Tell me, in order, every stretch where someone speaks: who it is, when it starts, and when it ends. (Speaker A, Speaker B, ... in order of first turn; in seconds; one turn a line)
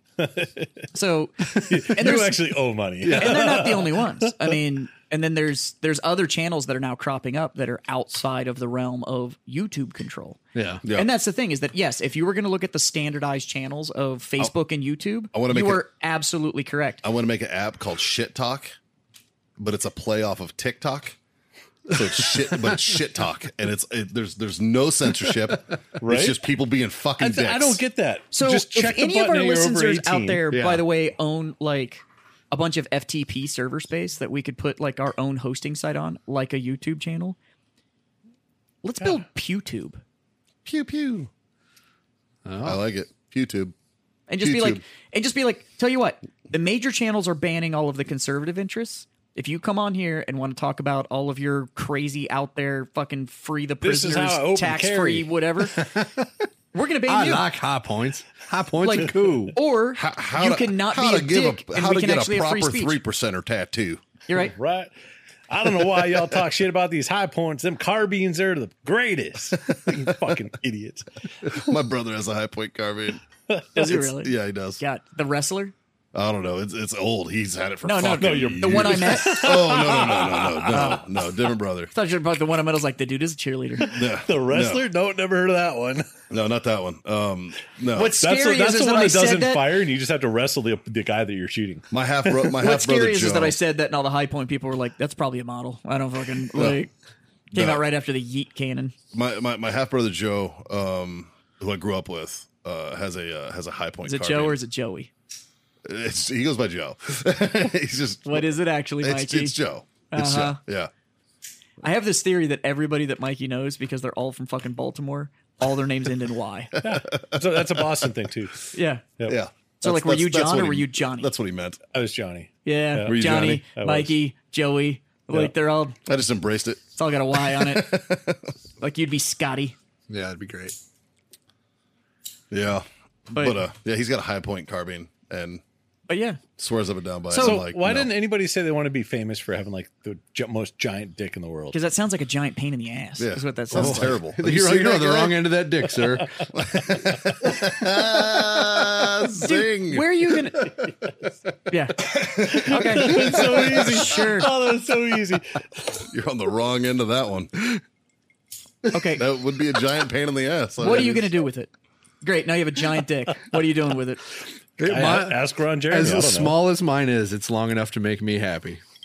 Speaker A: 0.2-0.8
Speaker B: 0.9-2.4
Speaker A: 1.5-4.5
Speaker C: 3.0-3.6
Speaker B: 3.1-17.0
Speaker C: 10.5-10.8
Speaker D: 10.8-11.1
Speaker D: 15.3-15.8
Speaker D: 17.0-18.7
Speaker D: 19.6-21.2
Speaker D: 21.9-27.8
Speaker A: 26.0-26.4
Speaker A: 27.2-30.4
Speaker B: 28.3-37.4
Speaker C: 30.5-30.9
Speaker B: 38.8-40.0
Speaker D: 40.6-41.3
Speaker C: 42.4-42.8
Speaker D: 42.6-43.7
Speaker B: 44.3-55.8
Speaker D: 44.4-44.8
Speaker A: 53.8-55.8
Speaker C: 55.8-56.3
Speaker B: 56.7-57.5
Speaker C: 57.0-59.6
Speaker B: 58.8-63.0
Speaker D: 60.0-64.0
Speaker B: 64.3-64.5
Speaker A: 64.5-64.9
Speaker A: 65.5-71.5
Speaker D: 71.4-73.2
Speaker B: 73.7-75.7
Speaker D: 73.7-74.8
Speaker D: 76.1-81.9
Speaker B: 77.8-79.8
Speaker A: 78.1-81.0
Speaker B: 80.7-81.0
Speaker B: 81.9-84.1
Speaker D: 83.9-84.8
Speaker A: 84.2-86.0
Speaker D: 86.3-88.2
Speaker B: 87.9-89.7
Speaker A: 88.0-92.5
Speaker D: 91.9-93.5
Speaker B: 92.6-96.9
Speaker D: 97.5-97.8
Speaker B: 97.5-98.9
Speaker D: 99.1-104.6
Speaker B: 104.0-105.1
Speaker D: 105.8-108.5
Speaker B: 108.2-109.5
Speaker D: 109.0-110.9
Speaker B: 110.1-110.6
Speaker B: 111.8-116.7
Speaker D: 116.7-118.0
Speaker A: 116.8-118.7
Speaker B: 118.7-119.0
Speaker D: 119.3-121.8
Speaker B: 119.8-121.3
Speaker A: 121.9-124.1
Speaker B: 122.6-126.0
Speaker D: 123.0-123.6
Speaker D: 126.0-126.9
Speaker B: 126.9-128.0
Speaker D: 127.4-128.4
Speaker B: 128.8-129.8
Speaker C: 130.1-130.8
Speaker D: 132.5-135.6
Speaker B: 133.3-133.6
Speaker B: 136.1-136.4
Speaker D: 136.6-138.1
Speaker B: 137.3-137.6
Speaker A: 137.3-141.8
Speaker B: 141.7-144.2
Speaker D: 143.2-145.4
Speaker C: 143.7-146.4
Speaker D: 146.5-150.9
Speaker B: 149.4-150.7
Speaker B: 151.7-154.5
Speaker D: 152.0-154.1
Speaker A: 152.4-156.1
Speaker D: 156.1-157.8
Speaker B: 158.9-159.3
Speaker D: 159.2-161.3
Speaker B: 160.8-161.7
Speaker B: 162.2-164.2
Speaker C: 164.8-168.8
Speaker A: 164.8-166.6